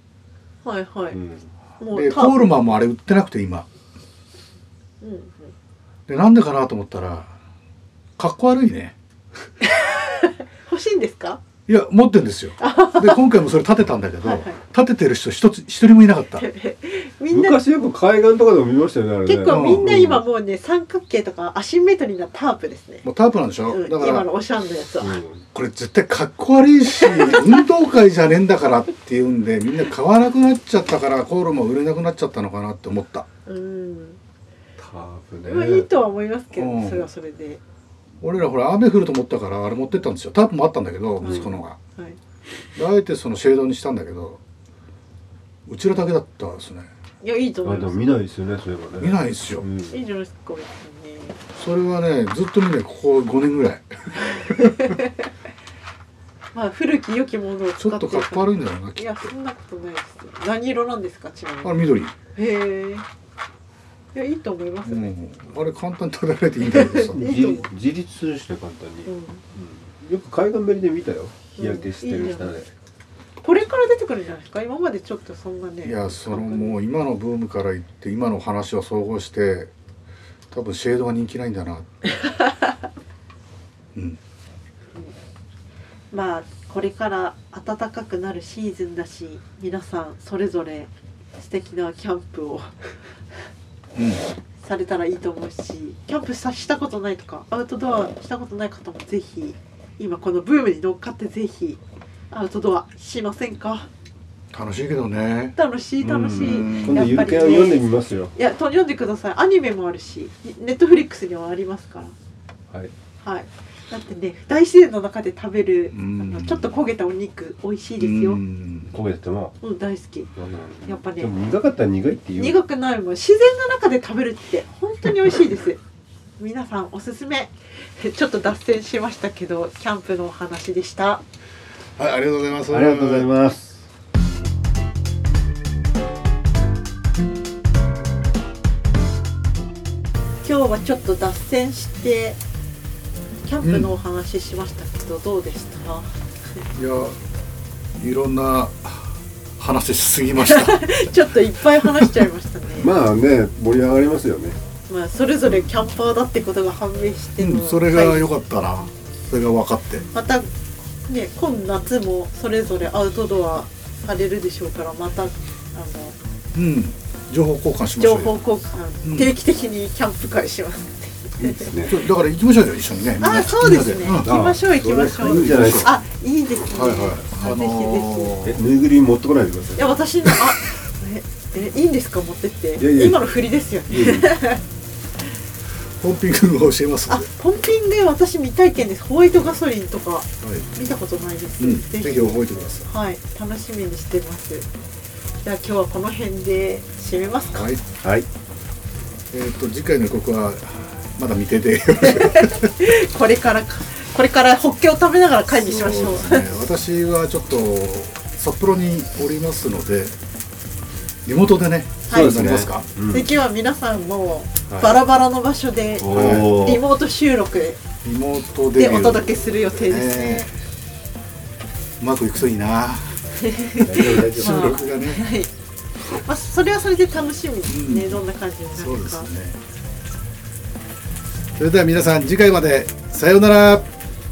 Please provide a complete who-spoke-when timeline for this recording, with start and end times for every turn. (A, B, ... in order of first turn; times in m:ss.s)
0:00.6-0:01.2 A
0:01.1-0:01.5 B
0:01.8-0:02.5 A
0:01.9-0:03.7 C
0:05.0-0:05.5 A
0:06.1-0:07.3 C
0:08.2-0:09.0 C
0:09.6-0:11.4 A
0:11.7-0:16.4 C
0:12.6-0:13.4 A
0:14.2-0:14.6 A
0:16.4-0:17.6 A
0:17.3-0:20.2 B
0:19.2-0:23.0 A
0:19.5-0:19.9 C
0:23.0-0:24.2 C
0:23.7-0:25.2 A
0:25.0-0:25.4 B
0:25.5-0:33.3 C
0:27.0-0:27.6 A
0:33.4-0:34.2 A
0:34.8-0:35.9 B
0:35.5-0:37.6 A
0:36.5-0:37.1 C
0:38.2-0:41.8 C
0:41.2-0:42.2 A
0:42.8-0:44.4 C
0:45.7-0:46.9 C
0:47.2-0:48.1 A
0:47.6-0:50.0 B
0:49.0-0:49.6 C
0:49.9-0:51.4 A
0:51.6-0:54.8 C
0:54.3-0:55.3 A
0:56.5-1:01.8 A
0:57.8-0:59.3 C
1:01.6-1:02.1 C
1:02.3-1:03.0 A
1:04.1-1:05.1 A
1:04.8-1:07.2 C
1:06.7-1:07.7 A
1:07.1-1:12.7 B
1:09.0-1:09.4 A
1:11.6-1:12.6 A
1:13.4-1:16.8 A
1:15.8-1:19.7 C
1:20.5-1:21.9 C
1:23.9-1:24.2 C
1:26.1-1:33.4 A
1:34.0-1:34.2 C
1:34.6-1:41.8 A
1:42.3-1:43.9 A
1:44.5-1:45.5 C
1:45.6-1:52.1 A
1:46.0-1:48.3 B
1:46.4-1:47.2 C
1:53.2-1:58.4 A
1:55.9-1:56.7 C
1:58.0-1:58.9 C
1:58.9-1:59.6 B
1:59.6-2:00.3 A
2:00.4-2:02.6 B
2:00.8-2:01.3 A
2:02.3-2:05.8 A
2:06.4-2:11.2 A
2:12.0-2:13.3 C
2:12.7-2:13.8 B
2:20.4-2:22.4 A
2:23.4-2:26.1 A
2:23.6-2:23.9 C
2:26.7-2:27.2 C
2:28.0-2:31.1 C
2:30.4-2:32.9 A
2:31.8-2:32.2 C
2:32.8-2:34.6 B
2:34.9-2:38.3 A
2:37.4-2:40.1 C
2:40.1-2:40.5 A
2:41.1-2:46.2 A
2:46.5-2:48.4 C
2:48.0-2:51.7 A
2:49.0-2:49.3 C
2:51.4-2:52.0 B
2:51.8-2:54.3 C
2:53.2-2:58.4 A
2:54.2-2:55.9 B
2:55.2-2:56.0 C
2:56.7-2:58.6 C
2:58.4-3:00.0 B
2:59.8-3:04.6 A
3:02.8-3:03.3 B
3:03.9-3:04.3 B
3:06.0-3:07.3 C
3:07.1-3:14.7 A
3:10.4-3:10.7 C
3:11.6-3:12.9 C
3:15.4-3:17.7 A
3:17.5-3:17.8 C
3:18.0-3:18.2 B
3:19.3-3:22.7 C
3:22.0-3:26.6 A
3:25.5-3:30.2 C
3:31.2-3:32.8 C
3:32.1-3:37.8 A
3:32.1-3:33.3 B
3:34.7-3:35.0 C
3:36.0-3:36.8 B
3:36.0-3:36.6 C
3:38.0-3:40.5 C
3:38.7-3:40.5 A
3:42.0-3:43.2 C
3:43.4-3:45.5 A
3:43.8-3:45.3 C
3:43.8-3:44.6 B
3:46.2-3:49.3 A
3:47.7-3:48.2 C
3:48.7-3:49.6 C
3:51.6-3:53.9 C